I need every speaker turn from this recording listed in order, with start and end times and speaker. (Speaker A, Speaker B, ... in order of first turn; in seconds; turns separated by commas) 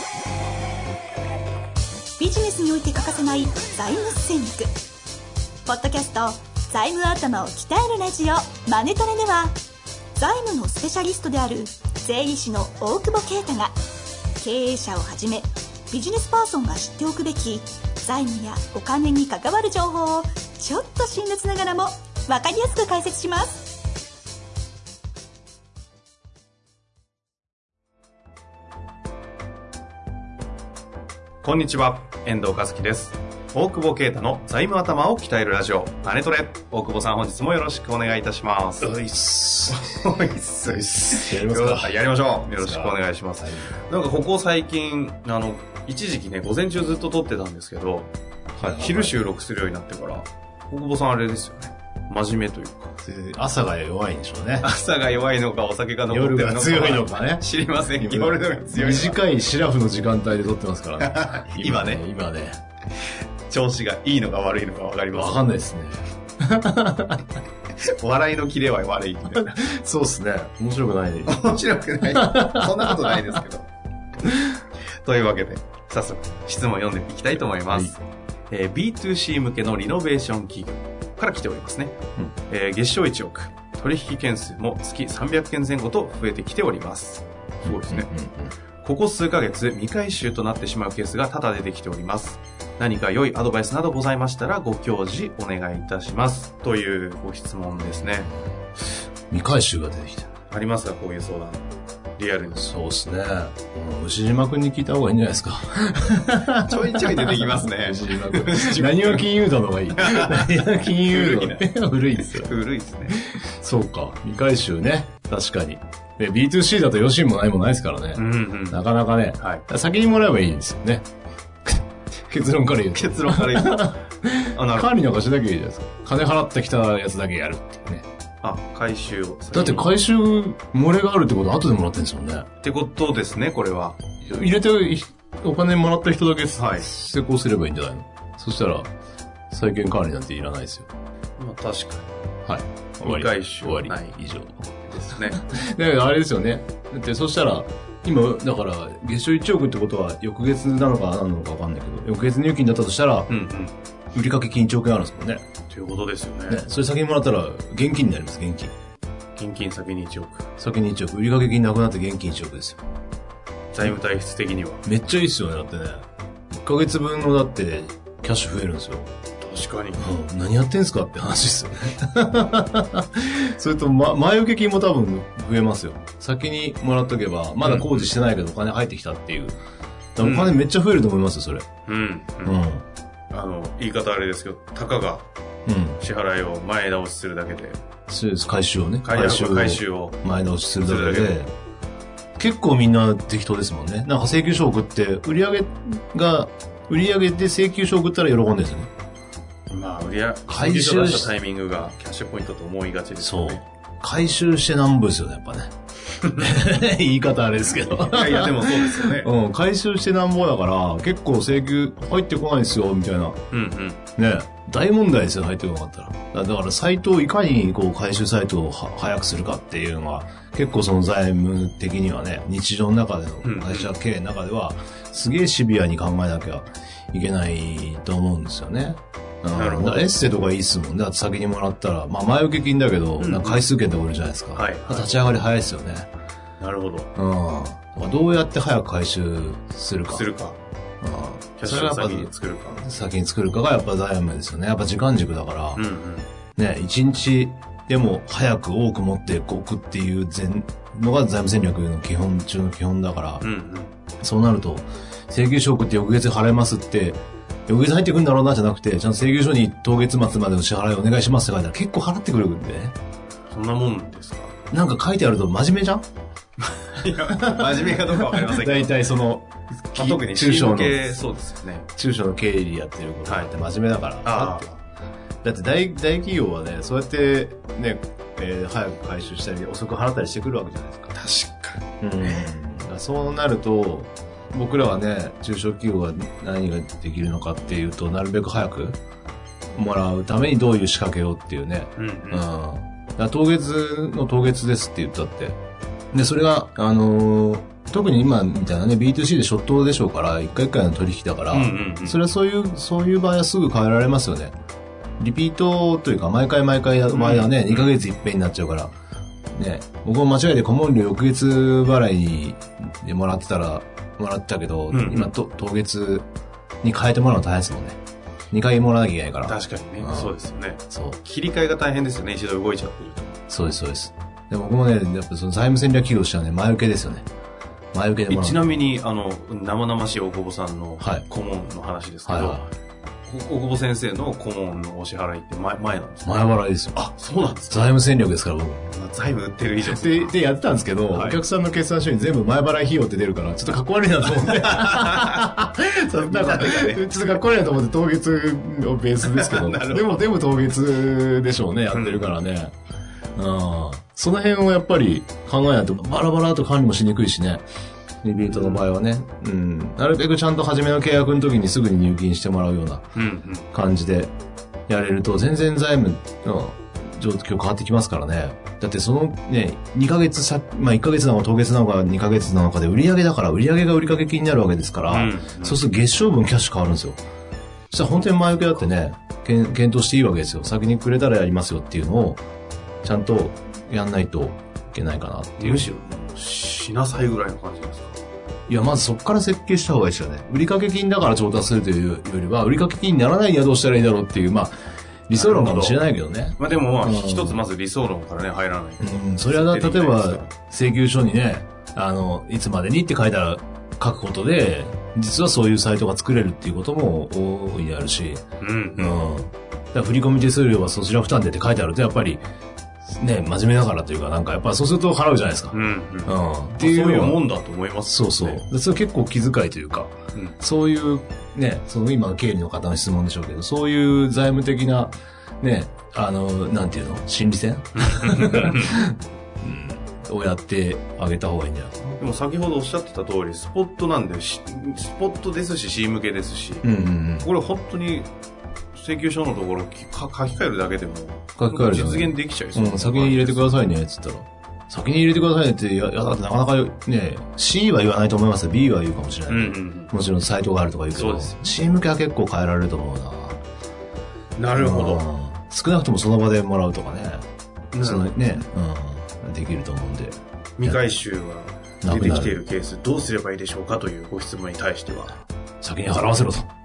Speaker A: 2.2-4.7, Speaker A: 5.7-9.6, Speaker A: 10.2-13.7, Speaker A: 14.4-23.8, Speaker B: 31.4-39.0, Speaker C: 38.8-39.8, Speaker B: 39.7-48.1, Speaker C: 41.0-43.7, Speaker C: 48.6-49.2, Speaker B: 48.7-52.9, Speaker C: 53.0-54.7, Speaker B: 54.6-59.2, Speaker C: 56.1-62.6, Speaker B: 61.0-62.0, Speaker B: 63.5-65.5, Speaker C: 65.1-67.3, Speaker B: 67.8-69.6, Speaker C: 69.4-71.5, Speaker B: 71.3-73.7, Speaker C: 72.1-73.4, Speaker B: 75.0-78.0, Speaker C: 77.7-77.9, Speaker B: 78.5-88.1, Speaker C: 87.6-88.5, Speaker B: 88.8-98.3, Speaker C: 99.3-100.3, Speaker B: 100.5-101.7, Speaker B: 102.2-102.7, Speaker C: 102.5-112.5, Speaker B: 106.5-109.3, Speaker B: 109.9-113.2, Speaker C: 113.1-121.1, Speaker B: 118.2-118.8, Speaker B: 119.4-119.6, Speaker C: 121.7-128.1, Speaker B: 122.9-124.0, Speaker B: 124.5-124.9, Speaker B: 128.4-129.9, Speaker C: 129.5-132.5, Speaker B: 132.6-134.0, Speaker C: 134.2-138.9, Speaker B: 136.6-136.9, Speaker C: 139.5-140.9, Speaker B: 141.4-142.1, Speaker C: 142.5-153.3, Speaker B: 143.0-144.2, Speaker B: 144.9-145.4, Speaker B: 153.3-153.8, Speaker C: 154.1-155.4, Speaker B: 155.7-156.6, Speaker C: 156.5-158.7, Speaker B: 159.4-160.5, Speaker C: 160.6-162.8, Speaker B: 163.7-164.9, Speaker C: 164.9-169.1, Speaker B: 169.4-170.0, Speaker C: 170.0-179.6, Speaker B: 177.6-178.1, Speaker C: 180.2-181.7, Speaker B: 180.2-180.6, Speaker B: 181.9-182.6, Speaker C: 182.4-182.8, Speaker B: 183.3-185.3, Speaker C: 185.7-186.0, Speaker B: 186.0-187.8, Speaker C: 188.1-191.5, Speaker B: 189.0-190.2, Speaker B: 190.8-191.4, Speaker C: 192.4-198.9, Speaker B: 199.7-203.6, Speaker C: 200.5-201.3, Speaker C: 203.2-213.4, Speaker B: 208.0-209.3, Speaker B: 213.5-214.0, Speaker C: 214.2-236.1, Speaker B: 223.4-223.9, Speaker B: 229.5-230.2, Speaker B: 233.2-233.7, Speaker B: 234.6-235.2, Speaker B: 236.6-237.1, Speaker C: 237.2-240.3, Speaker B: 240.1-240.6, Speaker C: 241.0-245.8, Speaker B: 241.6-242.8, Speaker B: 245.7-246.3, Speaker C: 246.6-253.5, Speaker B: 253.4-253.9, Speaker C: 254.2-262.9, Speaker B: 263.5-264.6, Speaker C: 264.7-266.1, Speaker B: 266.6-269.0, Speaker C: 267.3-271.2, Speaker B: 269.9-271.9, Speaker C: 272.0-274.7, Speaker B: 273.3-273.5, Speaker B: 274.2-274.8, Speaker C: 275.4-281.1, Speaker B: 281.1-282.5, Speaker C: 282.0-289.0, Speaker C: 289.7-295.6, Speaker B: 292.0-292.4, Speaker C: 296.1-304.6, Speaker B: 301.5-302.2, Speaker C: 305.2-308.9, Speaker B: 307.1-307.9, Speaker C: 309.5-316.3, Speaker B: 314.9-315.3, Speaker C: 316.8-318.0, Speaker C: 318.5-320.4, Speaker B: 319.4-323.4, Speaker C: 320.9-321.2, Speaker C: 323.5-327.3, Speaker C: 327.9-328.8, Speaker B: 328.3-332.7, Speaker C: 331.0-331.3, Speaker C: 332.2-332.7, Speaker B: 333.3-336.4, Speaker C: 336.2-337.1, Speaker B: 336.9-338.0, Speaker C: 337.7-338.9, Speaker B: 338.9-340.4, Speaker C: 339.9-352.7, Speaker B: 341.1-341.4, Speaker B: 344.5-345.4, Speaker B: 346.2-347.3, Speaker B: 349.2-350.3, Speaker B: 351.9-352.4, Speaker C: 353.4-357.6, Speaker C: 358.2-363.1, Speaker B: 358.5-358.9, Speaker B: 363.2-363.7, Speaker C: 363.7-364.3, Speaker C: 364.9-377.2, Speaker B: 375.1-375.8, Speaker C: 377.9-382.4, Speaker C: 383.0-385.9, Speaker B: 385.6-388.2, Speaker C: 388.7-394.7, Speaker C: 395.3-397.6, Speaker B: 395.3-400.5, Speaker C: 399.0-408.4, Speaker B: 408.6-409.2, Speaker C: 409.0-412.4, Speaker C: 413.1-417.4, Speaker B: 415.7-418.6, Speaker C: 418.1-432.2, Speaker B: 428.0-429.0, Speaker B: 432.2-436.9, Speaker C: 436.8-437.5, Speaker B: 437.4-438.3, Speaker B: 438.9-443.9, Speaker C: 441.6-453.6, Speaker B: 449.5-450.1, Speaker B: 451.1-451.7, Speaker B: 454.6-455.2, Speaker C: 454.8-457.4, Speaker B: 457.9-458.4, Speaker C: 458.0-461.0, Speaker B: 460.8-465.4, Speaker C: 462.0-462.6, Speaker C: 465.8-466.7